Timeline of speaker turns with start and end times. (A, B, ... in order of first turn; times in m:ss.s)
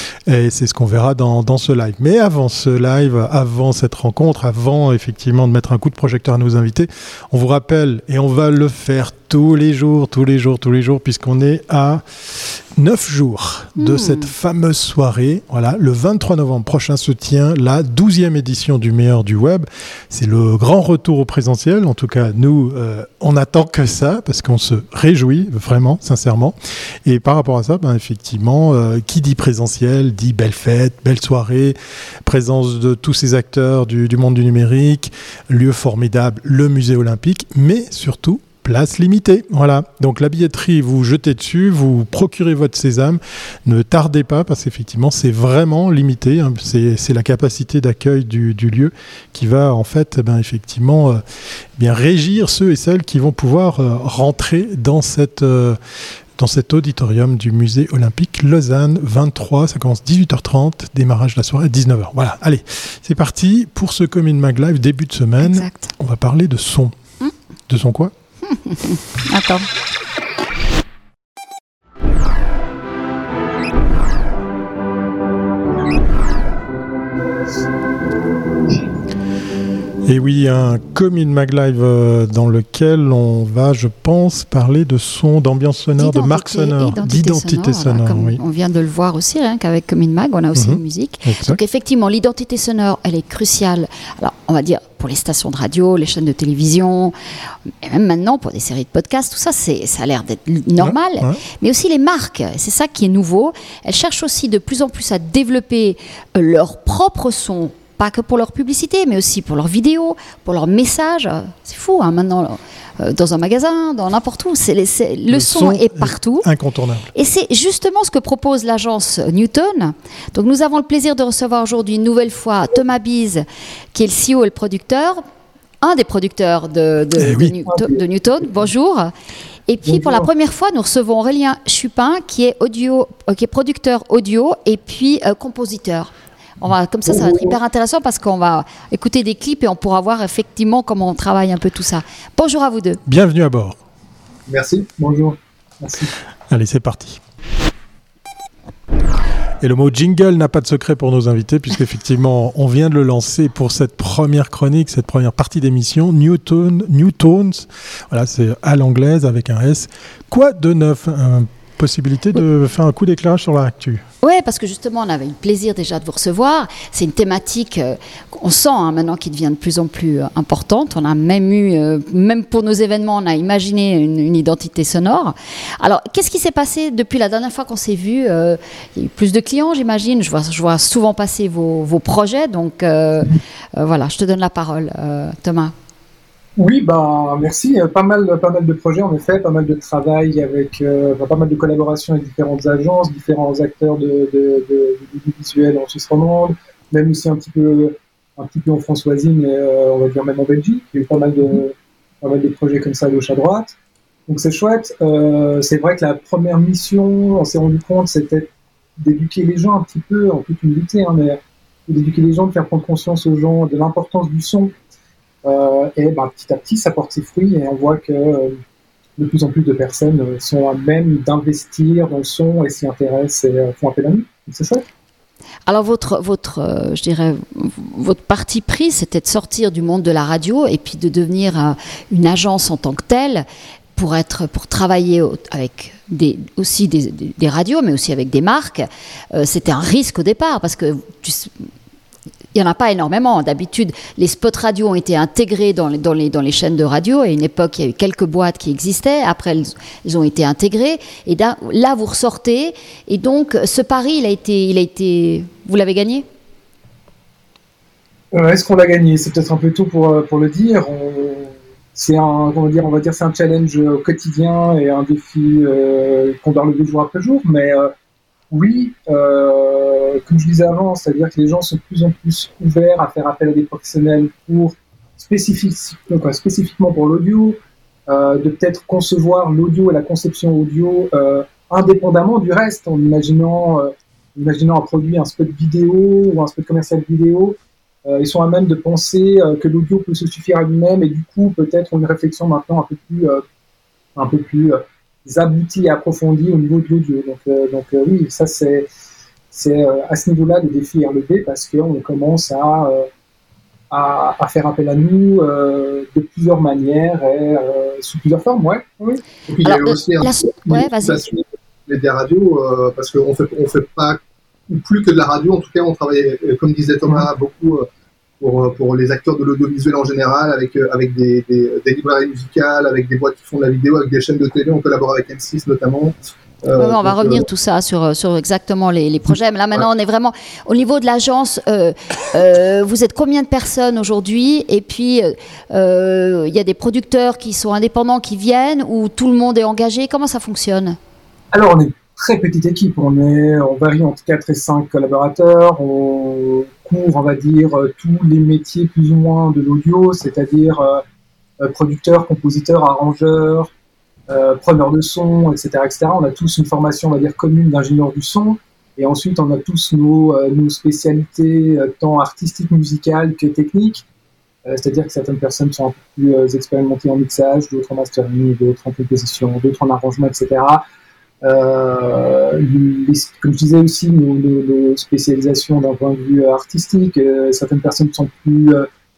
0:00.3-0:51.2 A
0:13.8-0:14.3 B
0:51.8-0:55.8 A
0:56.4-1:07.0 A
1:05.4-1:05.9 B
1:07.7-1:08.1 A
1:08.5-1:09.7 B
1:20.1-1:28.4 A
1:26.0-1:37.1 B
1:30.5-1:31.6 A
1:37.8-1:56.5 B
1:40.8-1:41.4 A
1:55.3-1:57.1 A
1:57.1-2:05.2 B
2:05.8-2:09.1 B
2:07.2-2:07.5 A
2:07.7-2:08.0 C
2:09.7-2:23.0 B
2:09.9-2:10.3 C
2:17.1-2:17.6 C
2:23.1-2:23.8 A
2:24.5-2:24.9 D
2:25.0-2:26.1 C
2:26.5-2:27.2 A
2:29.6-2:44.0 A
2:44.2-3:05.7 B
3:06.6-3:23.7 C
3:24.3-3:34.7 C
3:35.4-3:38.6 C
3:39.2-3:44.8 C
3:45.7-4:01.5 B
4:02.5-4:16.2 B
4:18.3-4:27.9 C
4:28.5-4:53.4 C
4:54.2-4:58.9 C
4:59.5-5:03.1 C
5:03.9-5:09.2 C
5:09.5-5:17.9 D
5:09.6-5:11.2 B
5:18.4-5:27.5 D
5:26.8-5:41.0 B
5:41.5-5:51.0 C
5:51.6-5:53.7 C
5:54.3-6:04.0 C
6:04.7-6:10.8 C
6:11.4-6:18.9 C